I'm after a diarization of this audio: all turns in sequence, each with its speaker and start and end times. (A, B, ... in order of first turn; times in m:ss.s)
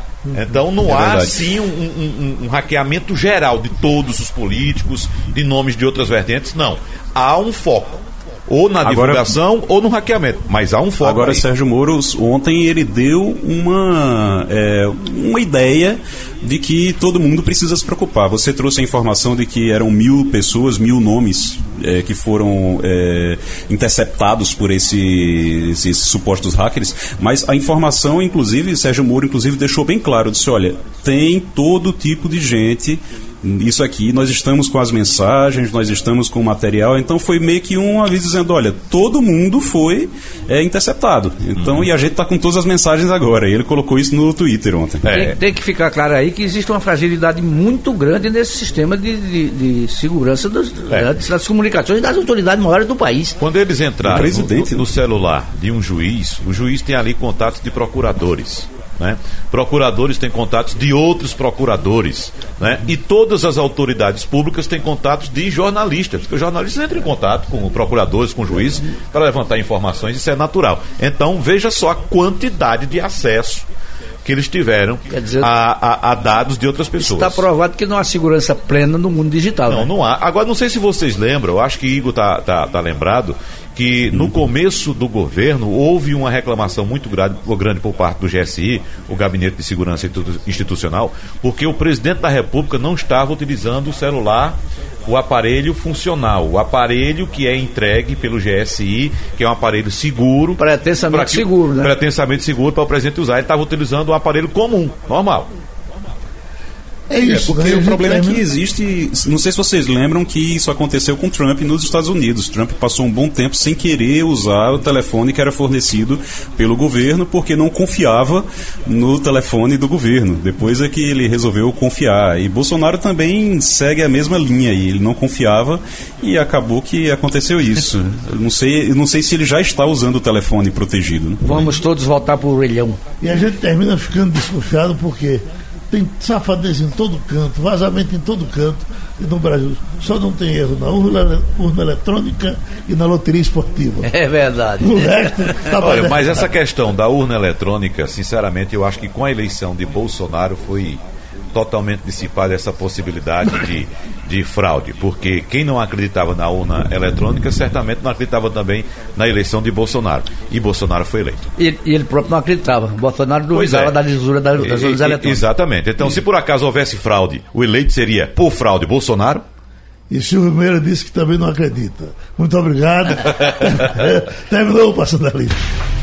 0:00.3-0:11.4 A
0:00.9-0:01.4 B
0:08.8-0:09.3 B
0:11.0-0:45.0 B
0:45.0-0:45.4 A
0:45.1-0:53.4 C
0:50.9-0:51.1 A
0:53.4-1:13.7 A
0:54.0-0:54.8 B
1:14.2-1:17.4 A
1:15.1-1:15.5 C
1:17.0-1:19.9 C
1:19.7-1:45.5 A
1:40.6-1:41.9 C
1:47.1-1:48.4 D
1:47.2-2:11.7 B
2:11.4-2:13.0 C
2:13.2-2:24.1 D
2:24.0-2:25.6 C
2:24.8-2:26.5 D
2:25.8-2:41.4 A
2:41.6-2:45.4 C
2:43.5-2:44.0 A
2:44.5-2:49.4 A
2:50.1-2:55.6 D